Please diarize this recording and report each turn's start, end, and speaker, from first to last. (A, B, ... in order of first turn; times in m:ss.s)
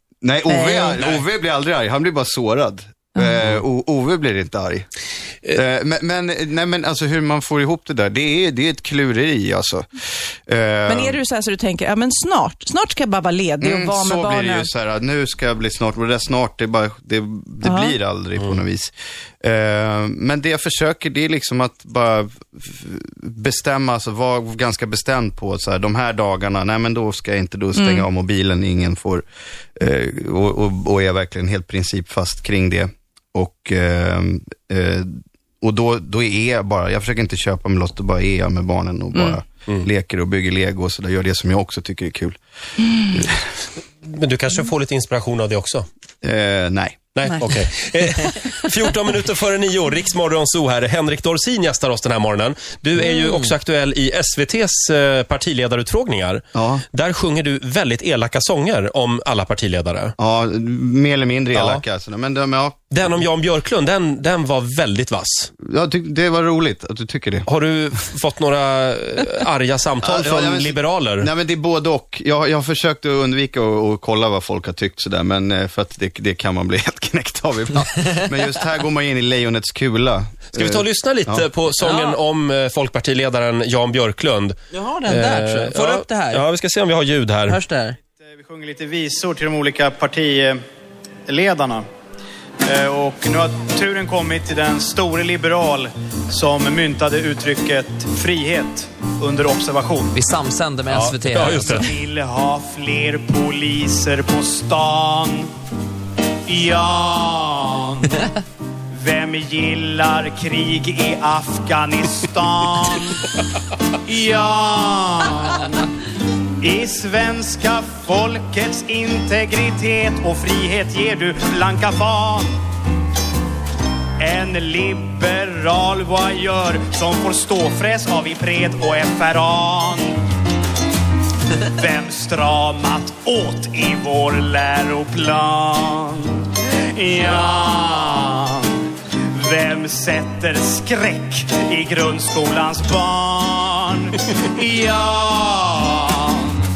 0:00.2-0:04.8 A
0:00.5-0:01.1 B
0:05.5-0:09.8 A
0:10.5-0:11.2 A
0:10.9-0:14.7 B
0:13.6-0:29.2 A
0:17.6-0:17.9 B
0:27.8-0:28.0 B
0:29.8-0:42.4 A
0:43.1-0:43.4 A
0:44.0-0:45.8 C
0:46.2-0:47.0 A
0:47.1-1:00.1 C
0:56.5-0:56.8 A
1:00.2-1:02.9 A
1:01.5-1:01.8 C
1:02.9-1:05.5 C
1:05.6-1:07.5 A
1:07.4-1:11.3 C
1:10.0-1:21.5 A
1:20.5-1:24.5 C
1:21.8-1:22.2 D
1:24.7-1:26.4 D
1:25.0-1:27.6 C
1:27.5-1:28.0 D
1:28.2-1:30.6 E
1:31.3-1:31.8 E
1:32.6-1:40.1 E
1:40.1-1:41.9 D
1:40.9-1:41.9 C
1:41.6-1:45.5 E
1:46.5-1:48.2 E
1:48.9-1:53.2 E
1:54.0-1:55.8 E
1:56.6-2:02.6 E
2:04.2-2:10.2 E
2:11.7-2:26.6 E